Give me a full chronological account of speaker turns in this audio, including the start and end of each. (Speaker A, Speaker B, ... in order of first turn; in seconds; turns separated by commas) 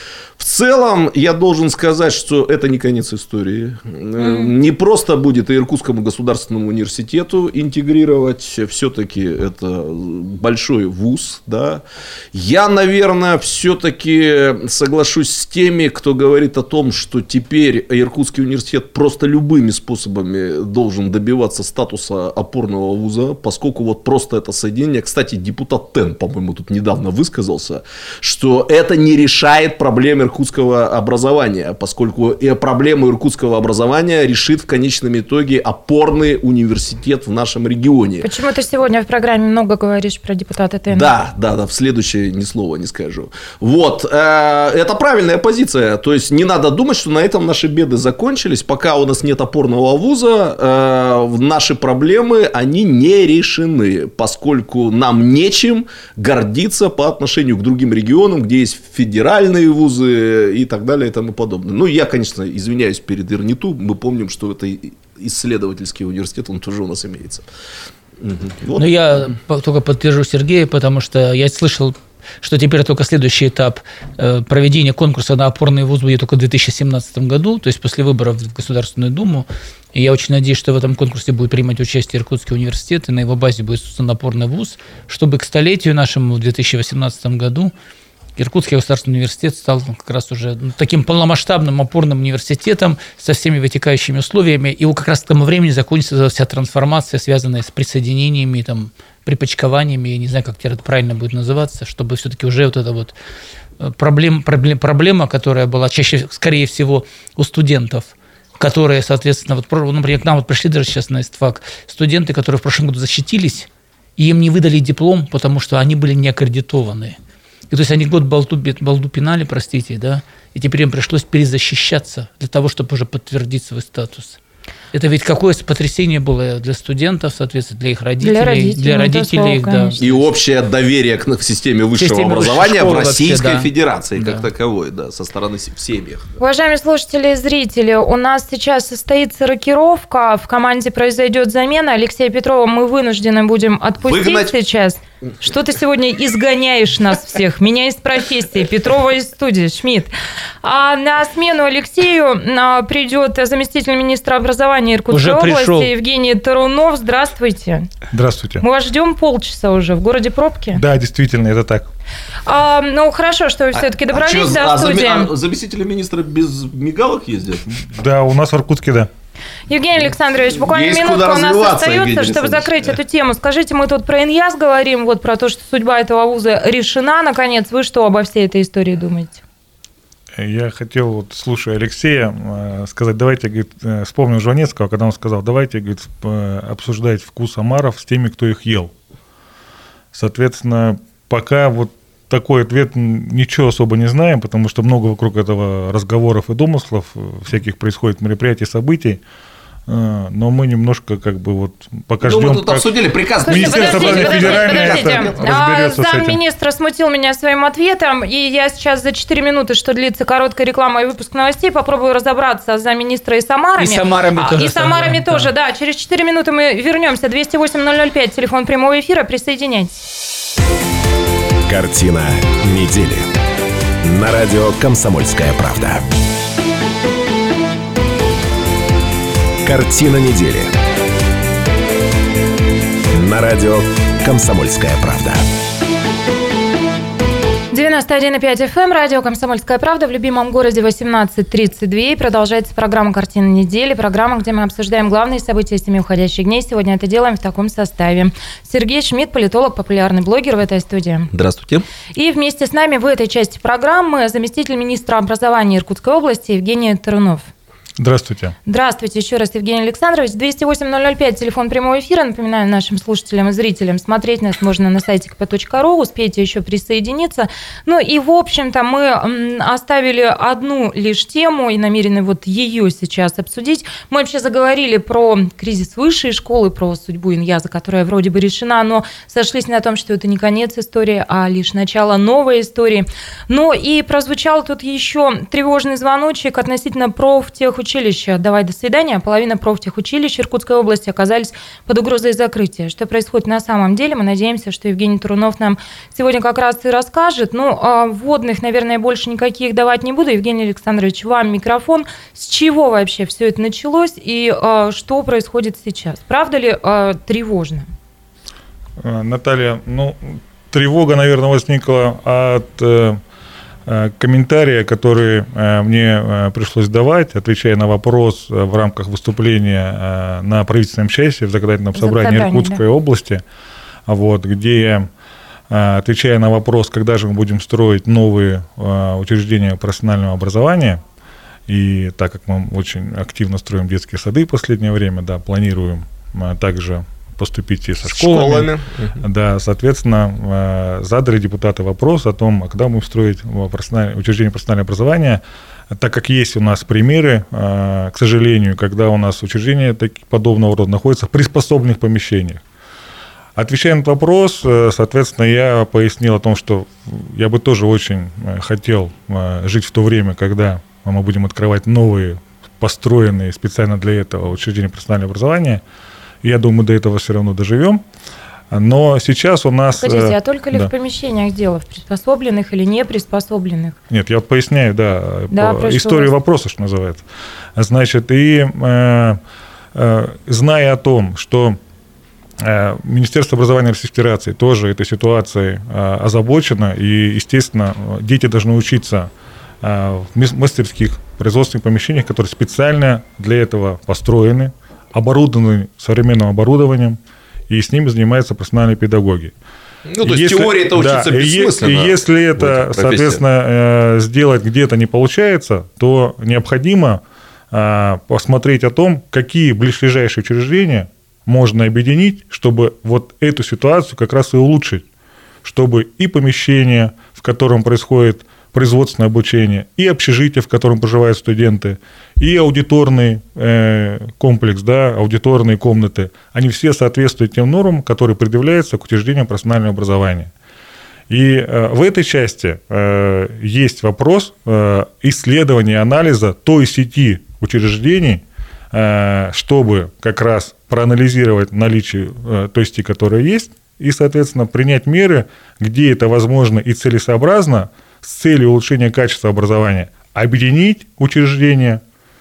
Speaker A: 0.4-38.3, Speaker B: 4.2-4.5, Speaker B: 38.2-41.1, Speaker A: 40.9-67.5, Speaker A: 68.2-69.3, Speaker C: 68.8-87.7, Speaker C: 88.4-103.1, Speaker C: 103.8-117.2, Speaker C: 117.7-124.4, Speaker C: 124.9-130.3, Speaker B: 128.2-130.0, Speaker A: 130.0-136.3, Speaker C: 132.0-134.5, Speaker B: 136.4-150.1, Speaker A: 144.1-144.5, Speaker B: 150.6-157.9, Speaker C: 155.1-155.9, Speaker D: 158.1-158.6, Speaker B: 158.6-160.8, Speaker D: 160.7-161.9, Speaker B: 162.5-165.3, Speaker A: 163.7-167.7, Speaker D: 167.8-169.1, Speaker B: 169.7-179.4, Speaker A: 170.6-172.9, Speaker D: 180.4-188.9, Speaker D: 190.1-199.2, Speaker D: 199.9-202.9, Speaker A: 202.2-205.6, Speaker B: 203.4-220.0, Speaker D: 203.5-206.4, Speaker C: 213.8-215.5, Speaker E: 221.7-223.3, Speaker E: 224.0-226.1, Speaker E: 229.6-230.7, Speaker E: 233.1-235.4, Speaker B: 237.7-251.3, Speaker A: 251.3-251.9, Speaker B: 252.2-257.5, Speaker D: 258.0-258.5, Speaker B: 258.7-307.9, Speaker D: 309.0-313.2, Speaker D: 313.9-323.4, Speaker B: 321.9-322.8, Speaker D: 324.1-325.1, Speaker D: 325.7-331.0, Speaker D: 331.7-352.6, Speaker A: 338.1-339.2, Speaker D: 353.6-365.8, Speaker D: 366.4-368.0, Speaker D: 368.7-370.9, Speaker B: 370.0-374.0, Speaker D: 374.1-377.2, Speaker B: 375.5-376.3, Speaker D: 377.8-379.4, Speaker D: 379.9-381.8, Speaker D: 382.6-389.3, Speaker D: 389.8-399.5, Speaker A: 400.1-403.4, Speaker D: 400.2-415.1, Speaker D: 415.6-430.5, Speaker D: 431.3-452.0